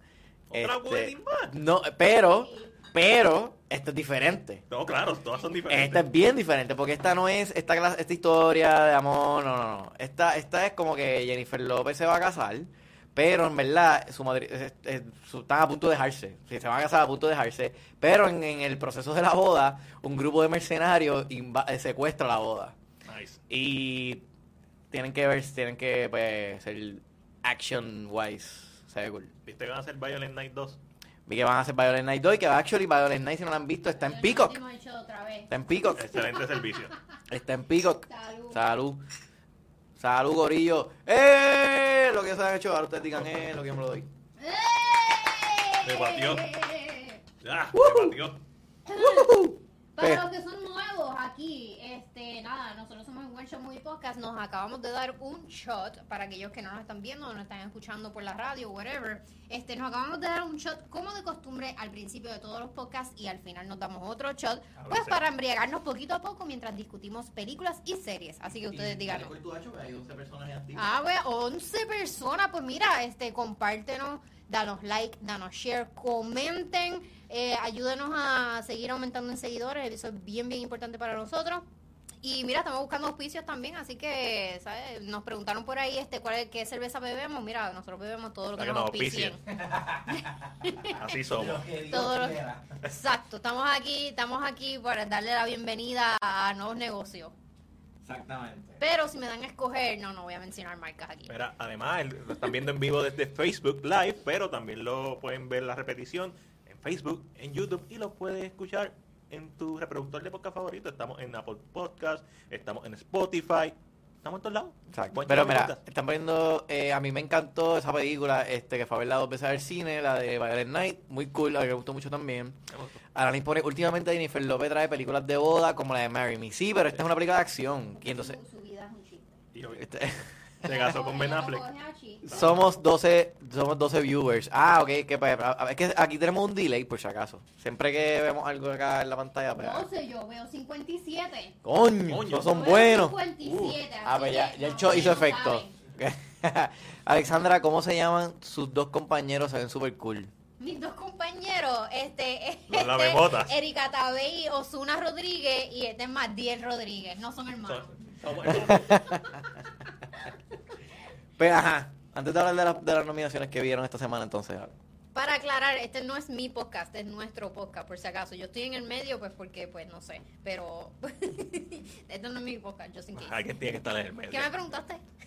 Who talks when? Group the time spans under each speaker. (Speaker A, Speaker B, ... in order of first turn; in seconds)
Speaker A: 0.5-1.6, 4.7-6.0, 23.1-23.4, 29.4-30.8, 35.9-36.9, 45.8-46.5, 47.4-48.4, 64.8-65.2, 88.6-89.4, 90.9-91.6, 101.3-115.8, 122.7-123.0, 129.5-130.0, 130.6-131.7, 132.2-132.7, 142.1-142.7, 143.4-143.8, 152.7-153.6, 157.7-159.2, 173.2-174.5
Speaker B: 0.5-4.6, 5.7-22.7, 23.5-24.2, 24.9-29.3, 31.3-34.5, 35.5-36.2, 37.3-39.0, 40.0-44.1, 47.7-48.2, 48.9-50.2, 68.7-71.0, 89.5-90.7, 91.2-92.8, 98.0-98.8, 114.9-122.6, 123.1-128.4, 129.7-130.3, 132.3-139.9, 141.6-143.2, 144.0-150.3, 158.5-159.2, 161.4-164.7
Speaker C: 2.4-2.7, 34.0-35.5, 36.2-36.6, 38.0-38.6, 44.4-47.2, 48.9-69.3, 70.7-81.7, 82.2-89.4, 90.1-91.1, 91.9-97.3, 98.8-101.3, 128.0-129.4, 130.6-132.5, 139.6-141.6, 142.4-145.7, 150.6-157.9, 165.1-173.4, 174.3-175.0